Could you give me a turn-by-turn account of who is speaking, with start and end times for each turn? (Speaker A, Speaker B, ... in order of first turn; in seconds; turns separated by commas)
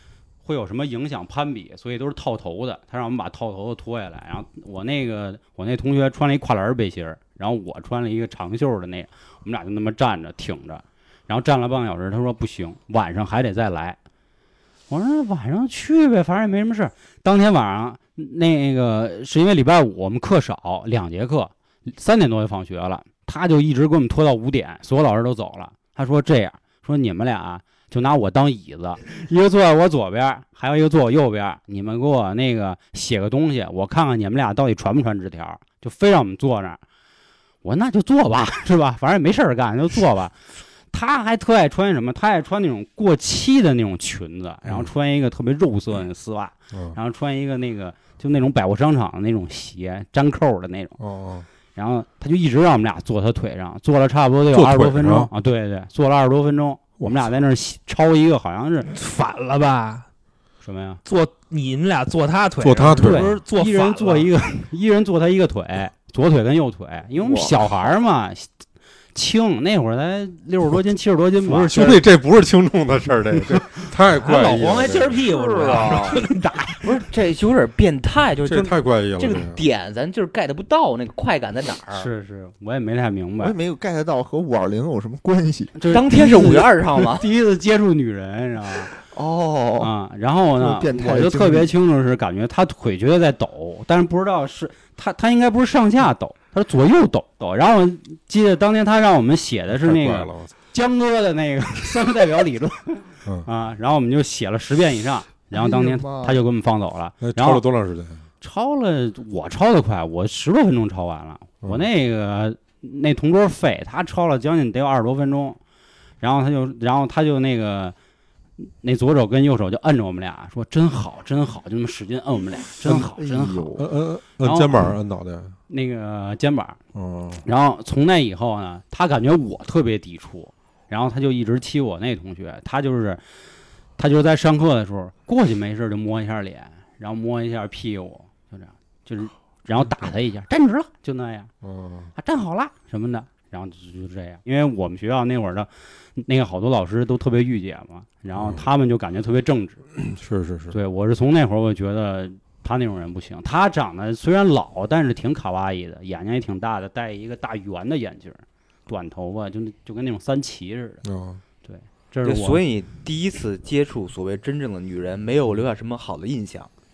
Speaker A: 0.4-14.0, Speaker A: 14.9-36.8, Speaker A: 37.6-40.4, Speaker A: 40.9-51.0, Speaker B: 46.7-47.0, Speaker B: 51.0-51.5, Speaker A: 51.8-58.9, Speaker B: 54.5-55.3, Speaker B: 57.0-57.3, Speaker C: 58.9-60.1, Speaker A: 60.6-61.0, Speaker C: 61.1-64.3, Speaker B: 62.6-63.4, Speaker A: 63.0-68.5, Speaker D: 67.2-67.6, Speaker A: 69.1-72.0, Speaker B: 71.4-75.2, Speaker C: 74.2-76.8, Speaker D: 75.3-76.2, Speaker E: 76.8-82.1, Speaker B: 78.4-79.6, Speaker A: 81.9-83.6, Speaker D: 83.4-85.8, Speaker A: 85.8-89.0, Speaker E: 85.9-87.2, Speaker D: 89.1-89.9, Speaker A: 89.8-107.6, Speaker D: 90.6-91.7, Speaker B: 99.7-100.5, Speaker D: 105.5-106.4, Speaker B: 107.2-108.2, Speaker A: 108.4-115.6, Speaker B: 111.6-111.9, Speaker A: 116.2-118.0, Speaker A: 118.6-123.8, Speaker D: 122.8-123.9, Speaker B: 123.8-125.6, Speaker A: 124.4-124.8, Speaker A: 125.7-126.8, Speaker B: 126.9-127.4, Speaker A: 127.4-133.2, Speaker A: 134.0-141.5, Speaker B: 141.6-142.1, Speaker A: 142.2-149.8, Speaker B: 148.3-148.6, Speaker B: 150.0-150.8, Speaker A: 150.7-161.0, Speaker B: 161.0-161.4, Speaker A: 161.6-162.6, Speaker E: 162.2-166.7